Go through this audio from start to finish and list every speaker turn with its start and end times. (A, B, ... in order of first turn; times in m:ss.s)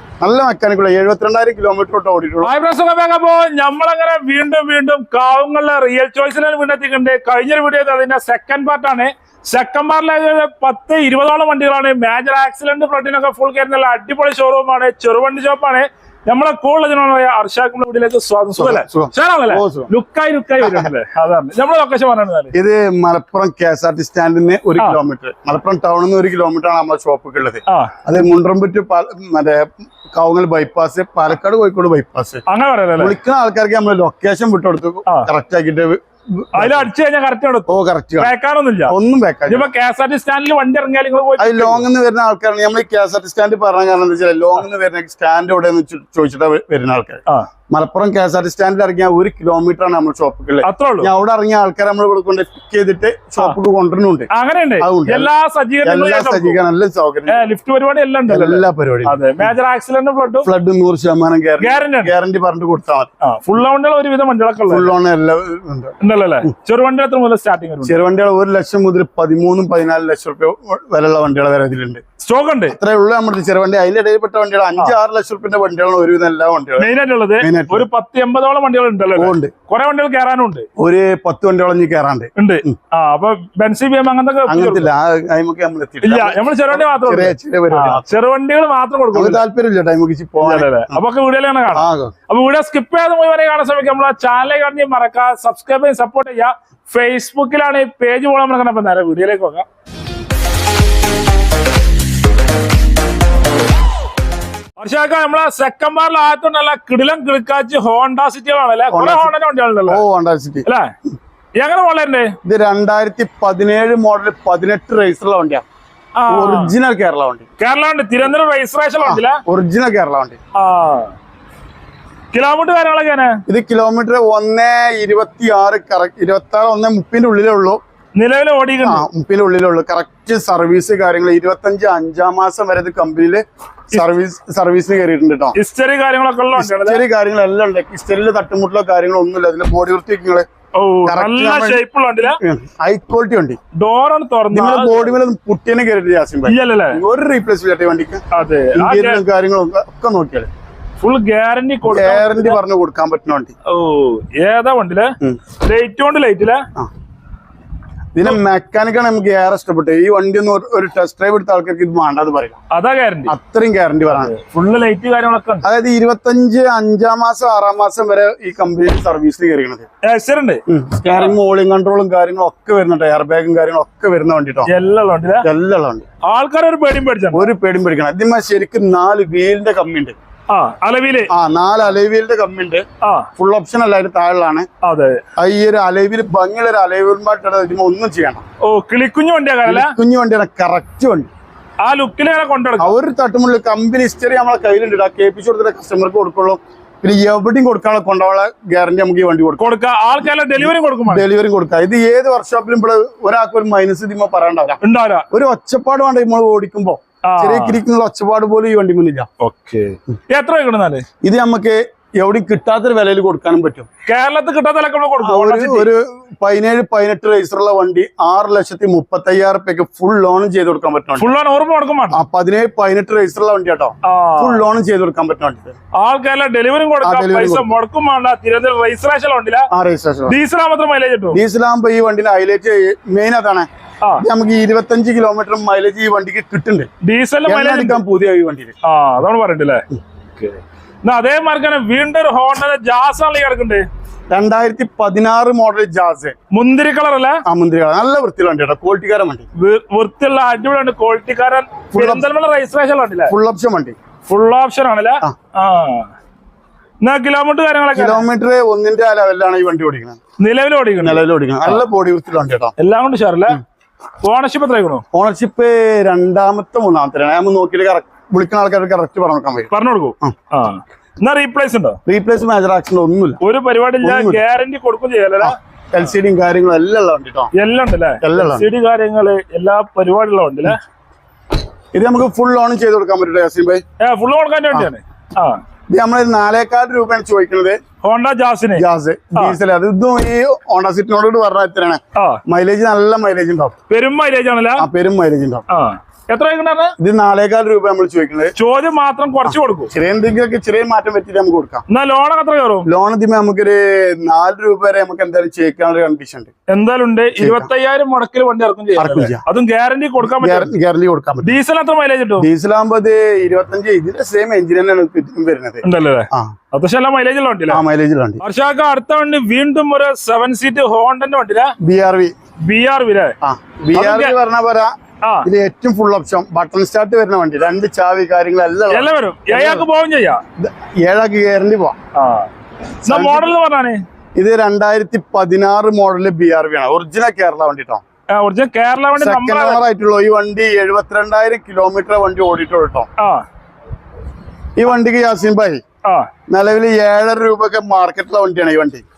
0:00.2-0:02.5 A
0:02.4-0:22.5 B
0:18.6-0:19.9 A
0:20.6-0:20.9 A
0:22.5-0:32.4 A
0:27.7-0:28.0 B
0:32.5-0:33.1 B
0:33.0-0:36.8 A
0:36.5-0:39.0 B
0:37.7-0:38.3 A
0:38.9-0:39.7 A
0:39.5-0:41.8 B
0:41.4-0:54.3 A
0:50.6-0:51.1 B
0:54.3-0:56.6 B
0:54.8-0:55.3 A
0:55.8-0:57.5 A
0:57.3-1:00.5 B
0:58.3-0:59.5 A
1:00.4-1:03.1 A
1:01.6-1:02.1 B
1:03.2-1:04.9 B
1:04.7-1:05.9 A
1:06.0-1:08.0 B
1:07.8-1:12.0 A
1:12.2-1:12.8 B
1:12.7-1:17.8 A
1:16.8-1:20.7 B
1:19.2-1:19.5 A
1:20.8-1:22.8 A
1:22.4-1:24.9 B
1:24.5-1:28.2 A
1:26.0-1:29.4 B
1:29.1-1:31.0 A
1:30.4-1:39.7 B
1:31.7-1:32.1 A
1:44.8-1:50.0 B
1:48.9-1:49.3 A
1:49.9-1:50.6 A
1:50.6-1:50.9 B
1:51.6-1:52.3 B
1:52.4-1:55.6 A
1:56.2-1:56.7 B
1:56.3-1:57.4 A
1:57.6-1:59.4 B
1:59.0-2:00.4 A
2:00.5-2:01.1 B
2:02.3-2:03.4 B
2:03.5-2:07.8 A
2:08.2-2:09.0 B
2:08.8-2:15.6 A
2:15.5-2:17.0 B
2:16.6-2:20.4 A
2:20.7-2:22.4 B
2:21.0-2:21.8 A
2:22.4-2:23.6 A
2:23.7-2:25.1 B
2:24.5-2:28.2 A
2:26.5-2:27.0 B
2:28.3-2:29.2 B
2:28.7-2:30.5 A
2:31.0-2:32.6 B
2:31.9-2:33.5 A
2:33.6-2:36.6 B
2:38.1-2:42.6 A
2:42.7-2:43.3 B
2:43.3-2:44.3 A
2:44.1-2:45.6 B
2:45.6-2:49.8 A
2:50.0-2:50.6 B
2:50.7-2:54.7 A
2:54.7-2:55.4 B
2:55.4-2:56.0 A
2:56.2-2:57.5 B
2:57.3-3:00.2 A
3:00.5-3:01.3 B
3:01.3-3:02.8 A
3:03.0-3:03.3 B
3:03.4-3:04.7 A
3:04.8-3:05.2 B
3:05.4-3:08.4 A
3:08.6-3:09.9 B
3:09.6-3:11.3 A
3:11.8-3:12.9 B
3:12.8-3:19.7 A
3:19.6-3:21.3 B
3:20.6-3:24.8 A
3:24.8-3:25.2 B
3:25.3-3:29.3 A
3:27.3-3:27.8 B
3:29.4-3:31.0 B
3:31.2-3:33.9 A
3:34.0-3:35.9 B
3:35.2-3:41.3 A
3:41.2-3:42.2 B
3:42.1-3:45.8 A
3:44.0-3:44.6 B
3:45.9-3:49.7 B
3:47.0-3:47.7 A
3:49.7-3:50.4 A
3:50.3-3:51.4 B
3:51.3-3:53.7 A
3:54.2-3:56.9 A
3:57.0-3:58.0 B
3:57.4-3:58.7 A
3:58.8-3:59.8 B
4:00.4-4:03.8 B
4:04.3-4:06.3 A
4:06.5-4:07.4 B
4:07.4-4:09.5 A
4:09.6-4:13.3 B
4:11.9-4:12.2 A
4:13.3-4:14.0 A
4:14.3-4:16.1 B
4:17.0-4:18.2 B
4:17.9-4:20.2 A
4:20.4-4:21.8 B
4:21.0-4:22.7 A
4:22.8-4:23.6 B
4:24.2-4:25.0 B
4:25.1-4:30.3 A
4:29.7-4:32.0 B
4:32.0-4:33.4 A
4:33.4-4:35.6 B
4:34.0-4:34.4 A
4:35.4-4:37.5 A
4:37.5-4:40.8 B
4:38.2-4:38.7 A
4:41.9-4:43.8 A
4:44.0-4:45.6 B
4:45.9-4:47.8 A
4:48.0-4:48.8 B
4:48.8-4:53.7 A
4:52.1-4:52.4 B
4:53.9-4:54.8 B
4:54.8-4:55.6 A
4:55.7-4:56.9 B
4:57.0-4:58.5 A
4:58.6-4:59.9 B
4:59.9-5:01.8 A
5:01.9-5:02.8 B
5:02.8-5:06.5 A
5:06.7-5:10.7 B
5:07.4-5:07.7 A
5:09.0-5:09.4 A
5:10.2-5:11.5 A
5:11.4-5:12.5 B
5:12.4-5:16.5 A
5:15.8-5:17.8 B
5:17.7-5:18.4 A
5:18.4-5:21.7 B
5:21.8-5:22.3 A
5:22.6-5:23.3 B
5:23.4-5:24.9 A
5:23.9-5:24.4 B
5:25.2-5:25.5 B
5:25.4-5:29.8 A
5:28.9-5:30.4 B
5:30.6-5:32.0 A
5:32.1-5:32.5 B
5:33.0-5:34.0 B
5:33.1-5:33.5 A
5:34.4-5:38.0 A
5:38.3-5:39.8 B
5:39.2-5:43.1 A
5:43.2-5:43.4 B
5:44.8-5:45.8 A
5:46.0-5:46.3 B
5:46.5-5:49.0 A